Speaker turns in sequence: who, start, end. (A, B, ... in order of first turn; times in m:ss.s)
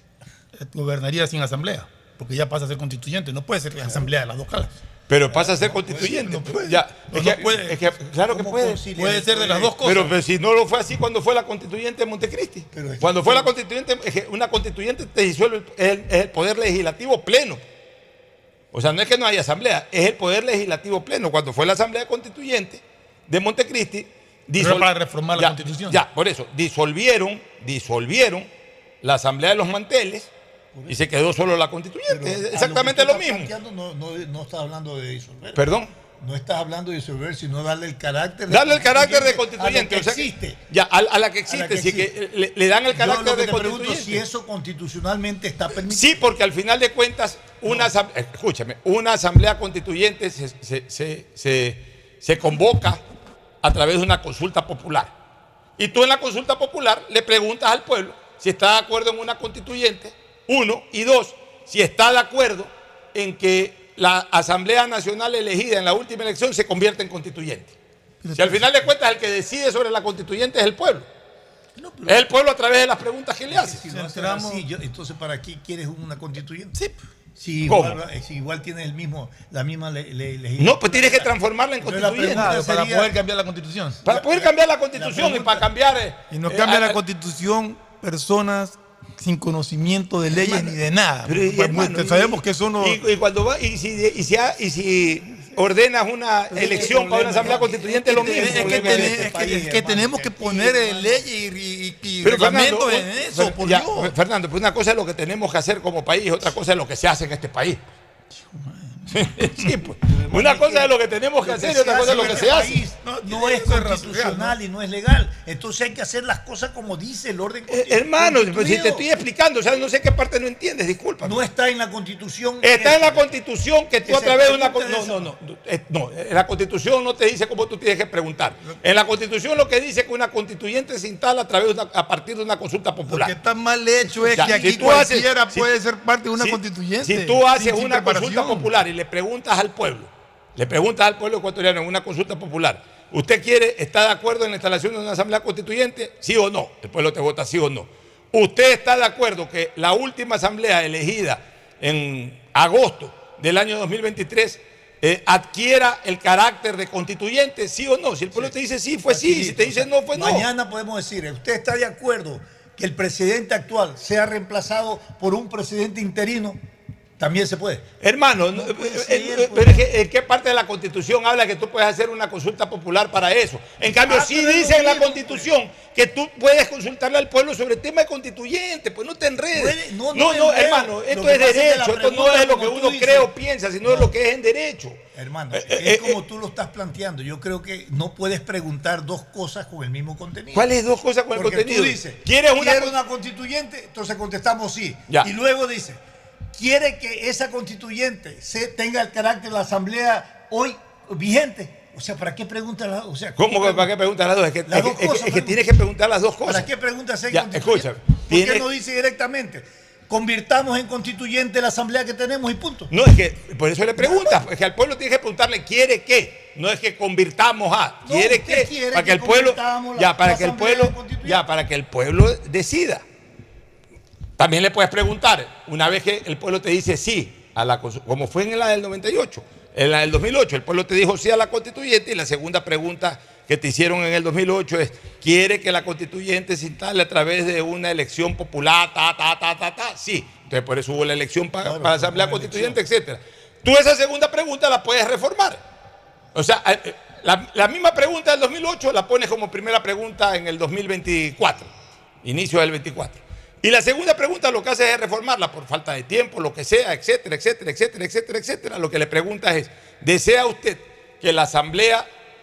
0:00.6-0:04.8 A
0:03.8-0:04.0 B
0:05.1-0:08.8 C
0:05.3-0:06.3 B
0:06.0-0:07.9 A
0:08.3-0:10.1 B
0:08.9-0:10.1 A
0:09.8-0:17.6 C
0:12.7-0:13.5 B
0:18.7-0:28.5 C
0:24.6-0:26.0 A
0:29.0-0:30.3 C
0:30.7-0:31.0 B
0:30.9-0:33.5 C
0:32.1-0:35.6 B
0:35.5-0:35.9 C
0:36.2-0:40.6 B
0:38.5-0:44.2 C
0:41.5-0:42.1 B
0:42.9-0:46.3 B
0:45.9-0:53.0 C
0:47.6-0:47.9 B
0:53.6-0:55.1 C
0:55.8-1:07.7 C
1:08.2-1:08.7 A
1:08.4-1:11.0 C
1:11.8-1:12.2 B
1:12.0-1:13.8 C
1:13.5-1:16.8 B
1:13.9-1:14.6 A
1:17.4-1:21.3 B
1:17.6-1:18.0 C
1:20.6-1:22.6 C
1:21.8-1:23.2 B
1:22.2-1:24.0 A
1:24.0-1:25.7 B
1:24.0-1:27.0 C
1:26.3-1:33.0 A
1:30.3-1:30.7 B
1:31.3-1:39.3 C
1:36.5-1:41.3 B
1:36.7-1:44.1 A
1:42.2-1:47.8 C
1:48.4-1:48.9 A
1:49.1-1:52.8 C
1:50.0-1:50.9 B
1:51.4-1:59.0 B
1:52.1-1:52.5 A
1:53.0-1:54.6 A
1:57.7-2:01.4 C
2:01.2-2:03.2 B
2:02.6-2:13.3 C
2:04.0-2:05.2 B
2:13.1-2:18.7 A
2:14.2-2:15.0 B
2:14.4-2:15.7 C
2:16.4-2:40.5 C
2:39.1-2:46.6 B
2:47.2-2:47.8 B
2:48.0-3:05.0 C
2:48.5-2:49.8 B
2:53.9-2:55.5 B
2:59.5-3:03.3 B
3:03.8-3:04.1 B
3:05.1-3:10.7 B
3:05.5-3:06.2 C
3:10.5-3:13.0 C
3:11.3-3:16.0 B
3:16.5-3:23.9 B
3:23.4-3:26.7 C
3:24.7-3:25.7 B
3:26.4-3:32.9 B
3:27.3-3:28.7 C
3:32.9-3:43.0 C
3:34.0-3:34.4 B
3:38.0-3:41.4 B
3:44.4-4:05.6 C
4:01.6-4:02.8 B
4:06.3-4:11.7 C
4:12.2-4:22.1 C